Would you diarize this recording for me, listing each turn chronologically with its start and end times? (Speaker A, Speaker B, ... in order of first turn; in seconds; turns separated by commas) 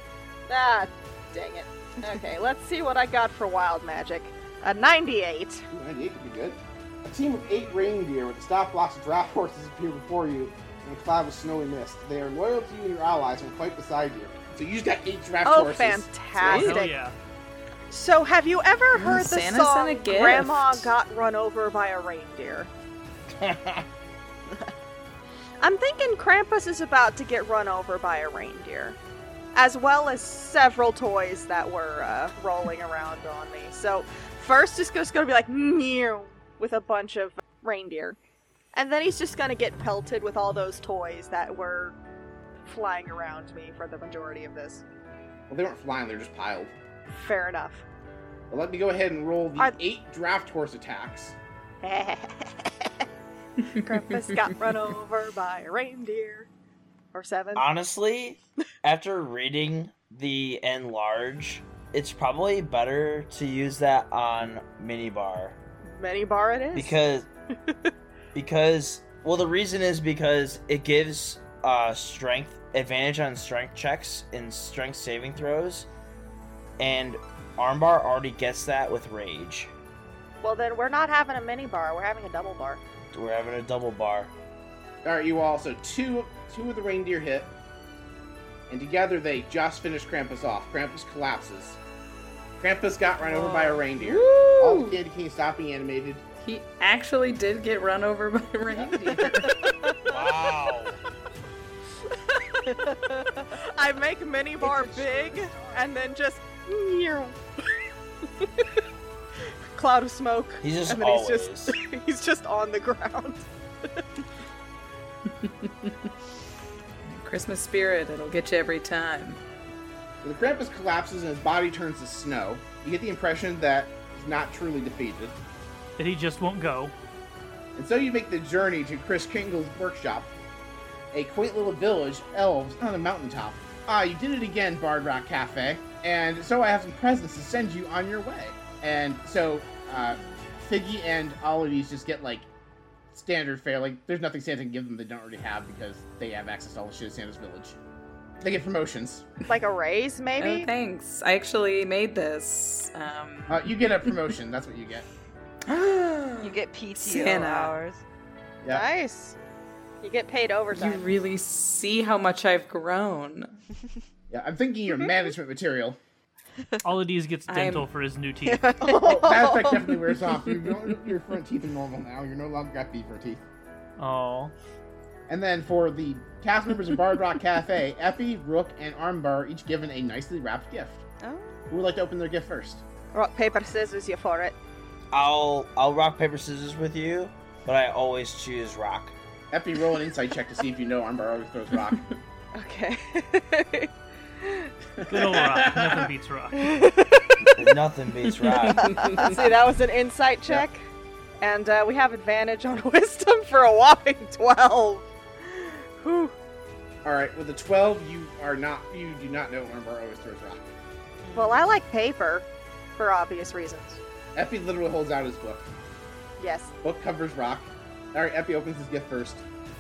Speaker A: 0.5-5.7, Speaker B: 5.7-16.8, Speaker A: 15.4-16.9, Speaker C: 16.5-17.1, Speaker A: 17.9-22.7, Speaker D: 18.9-20.9, Speaker E: 23.3-23.9, Speaker A: 25.6-29.0, Speaker A: 29.5-38.2, Speaker A: 38.7-42.0, Speaker A: 42.7-44.8, Speaker B: 45.5-46.7, Speaker A: 47.1-47.8, Speaker B: 48.5-51.4, Speaker A: 51.8-53.0, Speaker D: 53.7-54.5, Speaker A: 53.7-56.5, Speaker A: 57.1-57.6, Speaker E: 57.5-65.6, Speaker A: 65.8-67.0, Speaker E: 66.8-67.3, Speaker A: 67.7-67.9, Speaker E: 68.3-75.9, Speaker E: 76.8-79.7, Speaker A: 80.4-82.8, Speaker E: 83.1-84.3, Speaker B: 85.0-87.5, Speaker B: 88.7-91.8, Speaker B: 92.6-96.2, Speaker F: 93.2-93.9, Speaker D: 94.0-95.0, Speaker D: 96.4-99.5, Speaker F: 99.0-99.3, Speaker A: 99.3-100.3, Speaker E: 100.1-101.0, Speaker A: 102.1-102.8, Speaker F: 102.9-103.4, Speaker A: 103.3-107.4, Speaker F: 104.6-105.9, Speaker A: 108.4-108.8, Speaker A: 109.7-114.0, Speaker E: 110.6-111.8, Speaker D: 115.3-116.1, Speaker D: 117.0-119.4, Speaker B: 120.2-125.4, Speaker C: 126.0-126.9, Speaker B: 127.8-130.3, Speaker B: 131.1-142.5, Speaker B: 143.1-147.8, Speaker B: 148.4-149.3, Speaker A: 149.5-150.7, Speaker D: 150.4-154.2, Speaker B: 153.5-155.1, Speaker D: 155.7-157.8, Speaker F: 156.4-158.0, Speaker A: 158.7-159.4, Speaker A: 160.0-161.1, Speaker D: 160.7-163.6, Speaker B: 164.3-166.0, Speaker C: 166.8-168.8, Speaker D: 167.5-167.9, Speaker F: 168.4-170.0, Speaker B: 169.0-173.4, Speaker C: 174.0-174.5, Speaker B: 175.3-181.0, Speaker F: 181.2-181.8, Speaker B: 181.7-182.8, Speaker A: 183.1-184.6, Speaker E: 185.1-189.1, Speaker B: 189.5-192.1, Speaker A: 192.5-193.9, Speaker A: 194.4-194.7, Speaker B: 195.0-196.1, Speaker C: 195.1-196.8, Speaker E: 197.5-198.9, Speaker D: 198.4-199.4, Speaker F: 198.8-199.4, Speaker A: 199.2-200.8, Speaker A: 201.4-206.3, Speaker B: 207.0-210.8, Speaker F: 211.2-211.8, Speaker A: 211.3-214.0, Speaker B: 214.3-215.7, Speaker A: 216.4-216.8, Speaker B: 216.8-219.4